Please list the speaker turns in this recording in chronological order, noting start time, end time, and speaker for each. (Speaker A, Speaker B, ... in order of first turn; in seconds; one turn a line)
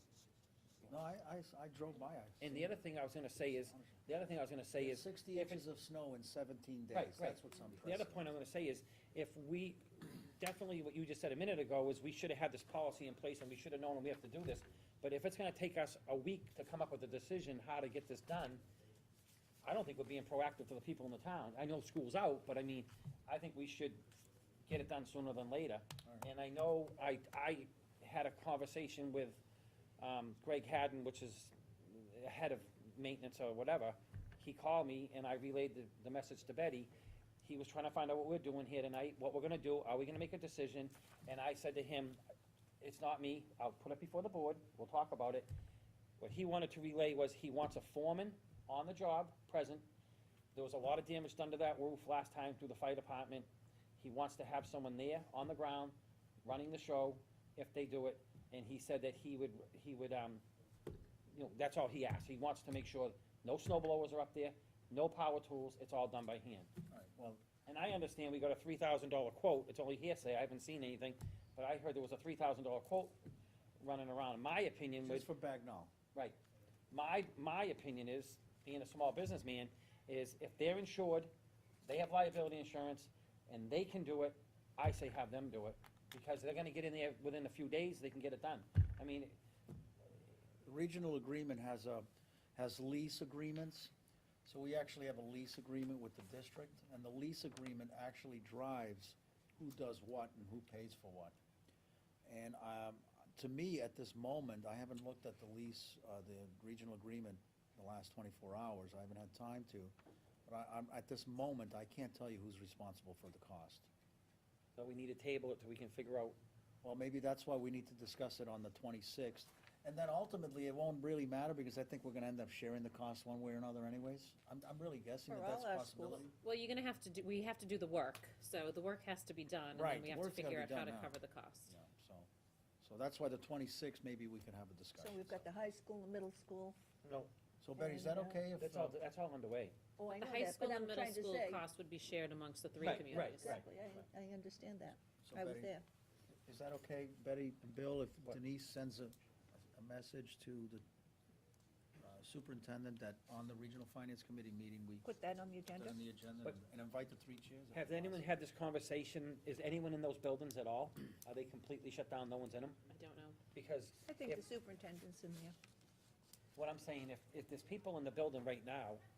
Speaker A: 0.8-2.8
Speaker B: 2.4-5.6
Speaker A: 3.5-4.0
Speaker A: 4.8-8.3
Speaker B: 6.9-18.6
Speaker B: 19.6-24.0
Speaker B: 24.7-29.4
Speaker B: 30.0-36.9
Speaker B: 37.4-42.2
Speaker B: 42.8-45.5
Speaker B: 46.2-49.9
Speaker B: 50.5-53.5
Speaker B: 54.0-60.4
Speaker B: 61.3-66.7
Speaker A: 66.9-67.4
Speaker B: 67.7-73.2
Speaker B: 73.8-75.3
Speaker A: 75.0-75.9
Speaker B: 76.9-81.3
Speaker B: 81.8-89.4
Speaker A: 90.6-93.9
Speaker A: 94.5-101.4
Speaker A: 102.3-109.9
Speaker A: 110.5-113.9
Speaker B: 114.8-116.4
Speaker A: 116.8-126.3
Speaker C: 125.3-126.2
Speaker D: 126.4-131.7
Speaker A: 129.7-131.2
Speaker A: 131.7-132.3
Speaker A: 132.8-135.5
Speaker C: 135.0-136.8
Speaker B: 137.0-137.3
Speaker A: 137.6-139.0
Speaker C: 137.7-138.4
Speaker B: 138.6-139.8
Speaker C: 140.0-141.6
Speaker D: 140.1-143.6
Speaker B: 142.8-143.7
Speaker C: 143.3-145.8
Speaker A: 145.2-145.8
Speaker A: 146.5-150.8
Speaker A: 152.0-155.1
Speaker C: 155.0-156.0
Speaker A: 155.7-158.3
Speaker B: 157.7-162.8
Speaker D: 162.9-163.4
Speaker B: 163.5-164.4
Speaker C: 164.1-165.6
Speaker B: 166.6-169.0